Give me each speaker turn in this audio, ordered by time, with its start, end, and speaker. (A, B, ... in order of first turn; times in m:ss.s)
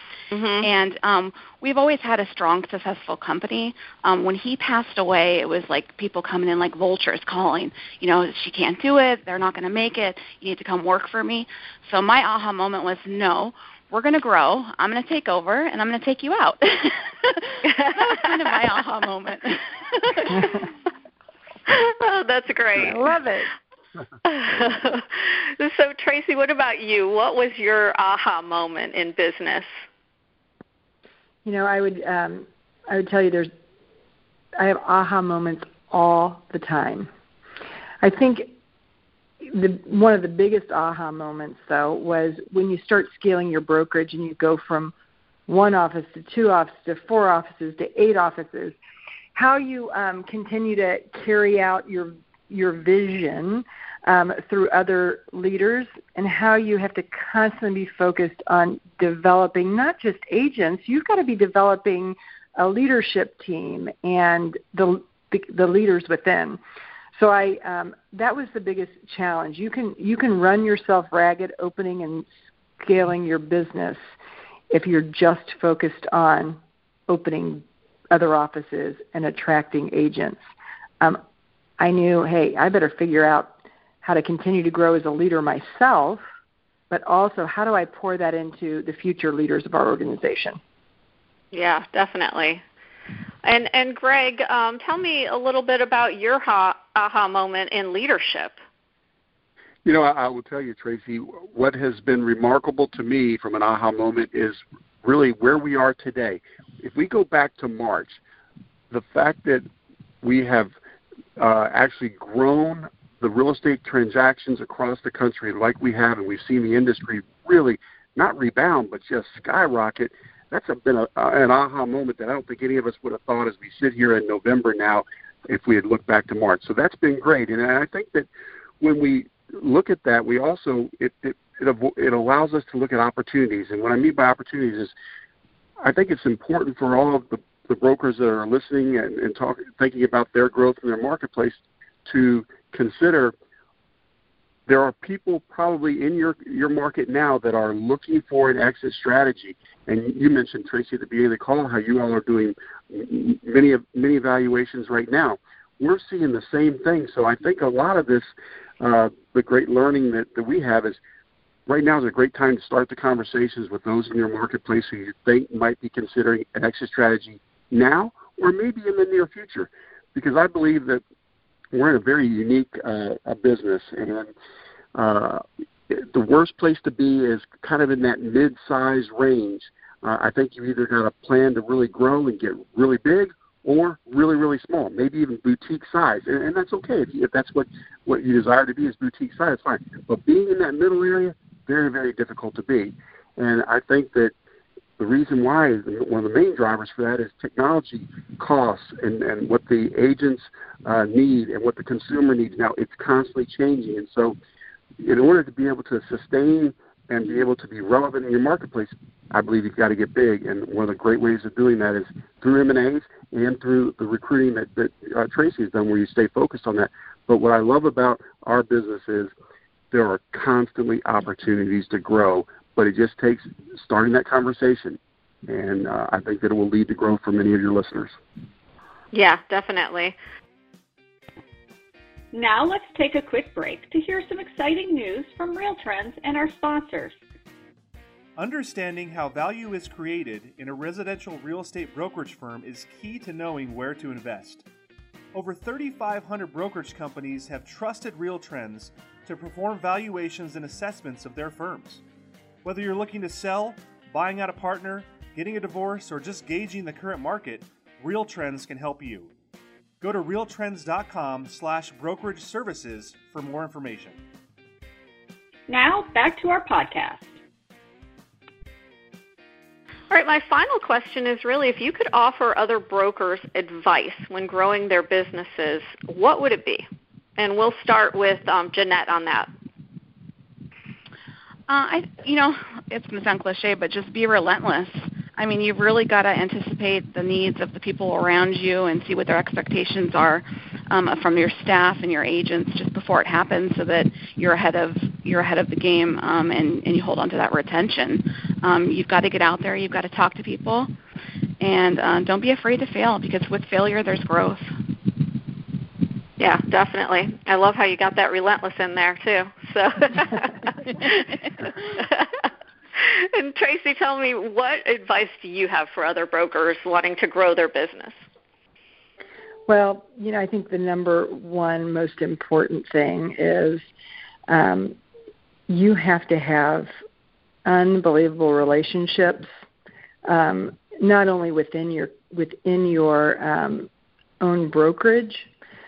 0:00.3-0:00.7 A
0:00.6-0:20.6 B
0:17.7-0:18.3 A
0:20.3-0:20.5 A
0:21.7-0:23.0 A
0:22.8-0:23.5 C
0:24.2-0:29.7 A
0:31.4-0:33.5 C
0:34.6-0:37.1 C
0:38.0-0:38.5 C
0:39.4-0:44.9 C
0:45.5-0:48.8 C
0:49.4-1:06.6 C
1:07.2-1:12.3 C
1:12.8-1:14.0 C
1:14.7-1:20.4 C
1:21.8-1:26.2 C
1:26.9-1:30.6 C
1:31.5-1:32.6 A
1:33.4-1:38.6 A
1:39.8-1:48.2 D
1:48.9-1:49.7 D
1:50.2-1:50.7 D
1:51.4-2:08.3 D
2:08.8-2:14.9 D
2:15.8-2:23.3 D
2:24.7-2:41.0 D
2:41.7-2:51.0 D
2:51.7-2:54.3 D
2:55.0-3:14.3 D
3:15.0-3:24.4 D
3:25.0-3:39.3 D
3:39.9-3:48.2 D
3:49.1-3:50.2 A
3:52.3-3:57.2 E
3:58.4-4:04.6 F
4:05.3-4:12.0 F
4:12.6-4:19.3 F
4:20.0-4:24.2 F
4:25.7-4:27.3 E
4:30.1-4:36.9 A
4:37.4-4:39.5 A
4:41.7-5:00.9 B
5:01.6-5:04.7 B
5:06.4-5:18.2 A
5:19.7-5:23.9 C
5:24.5-5:25.0 C
5:25.7-5:26.9 C
5:27.6-5:29.5 C
5:30.2-5:33.9 C
5:34.4-5:35.5 C